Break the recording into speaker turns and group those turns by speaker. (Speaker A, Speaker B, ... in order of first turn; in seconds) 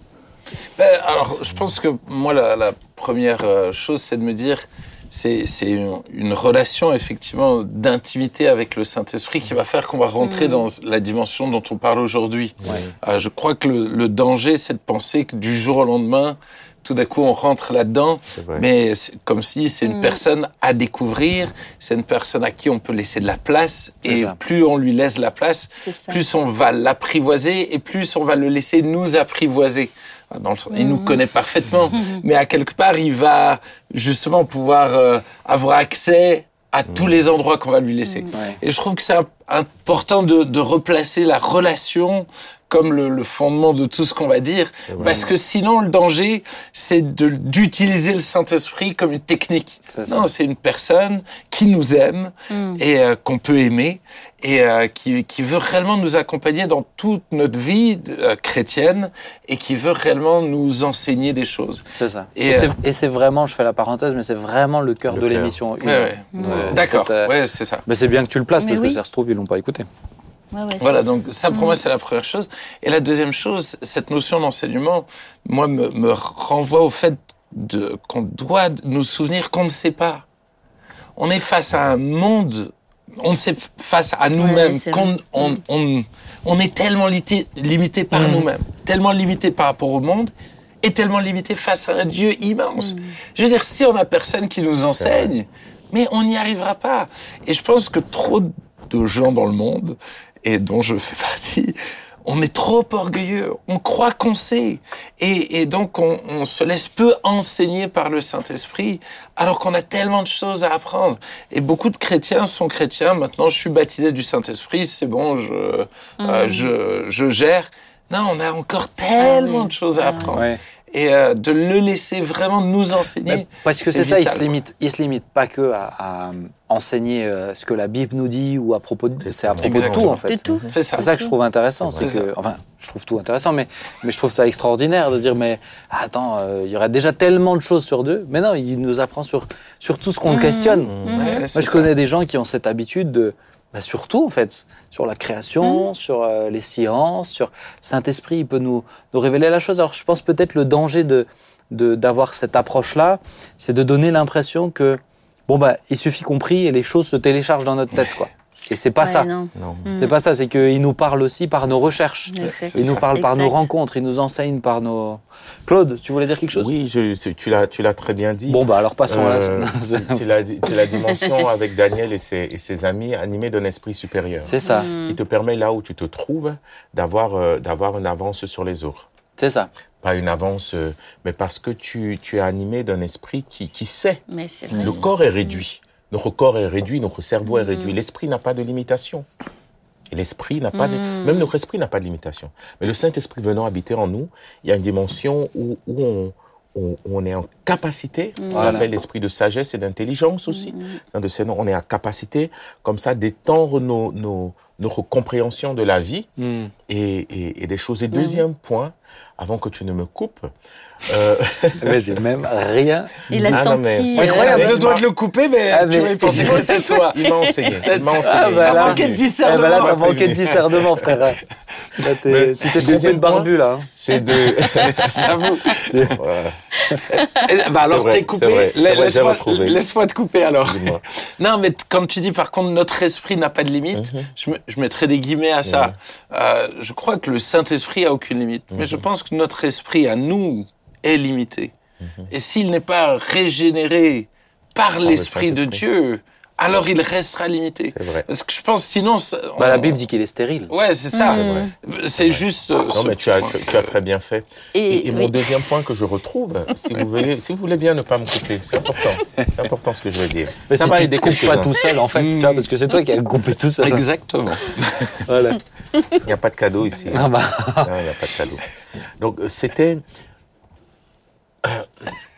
Speaker A: 0.8-62.7, 65.8-67.8, 70.8-80.2, 81.2-124.5, 129.6-131.1, 132.0-132.3, 141.1-141.9, 162.4-163.1, 184.7-185.0, 214.1-217.2, 217.8-221.1, 224.7-226.1, 227.1-241.7, 242.3-250.0, 250.7-253.9, 262.1-262.7, 263.8-265.2
Speaker B: 10.2-10.7, 19.8-20.2, 25.8-26.2, 30.7-31.2, 31.9-32.2, 38.0-38.3, 52.5-52.8, 66.3-66.7, 68.6-69.0, 70.5-71.0, 71.5-71.8, 84.4-85.6, 92.8-93.1, 116.2-116.7, 119.2-120.4, 130.2-131.3, 140.3-141.4, 159.0-160.2, 162.3-163.6, 174.5-175.2, 184.3-185.6, 187.5-187.9, 190.7-191.5, 198.4-198.8, 200.5-201.0, 208.1-208.4, 213.3-214.8, 216.4-217.8, 224.3-224.9, 226.9-227.4, 251.1-251.7, 254.7-255.5
Speaker C: 12.6-12.9, 18.3-18.6, 36.9-37.2, 44.9-45.3, 65.1-65.6, 66.4-66.7, 95.0-95.3, 129.2-130.8, 131.8-132.1, 140.9-141.3, 159.5-159.9, 166.5-179.1, 180.0-184.2, 184.8-189.2, 190.1-206.3, 206.9-210.5, 211.0-212.0, 213.4-215.1, 216.2-220.5, 222.2-225.2, 226.0-226.6, 227.8-229.8, 230.6-231.0, 233.9-234.3, 235.6-235.9, 238.7-239.0, 242.0-242.3, 245.0-245.8, 247.9-248.2, 251.3-261.8, 266.2-268.6, 269.2-270.0, 271.6-272.1
Speaker D: 24.0-24.4, 38.3-38.6, 45.0-45.3, 49.9-50.3, 61.9-67.3, 67.8-69.8, 88.1-88.5, 120.3-120.6, 123.3-140.9, 141.5-159.3, 160.0-166.7, 168.5-170.2, 174.5-174.9, 179.4-179.7, 198.5-198.9, 206.4-206.7, 211.8-213.6, 215.7-216.7, 218.2-221.4, 221.9-223.9, 225.8-226.2, 249.6-250.7, 260.7-264.1, 265.3-265.6, 267.1-267.9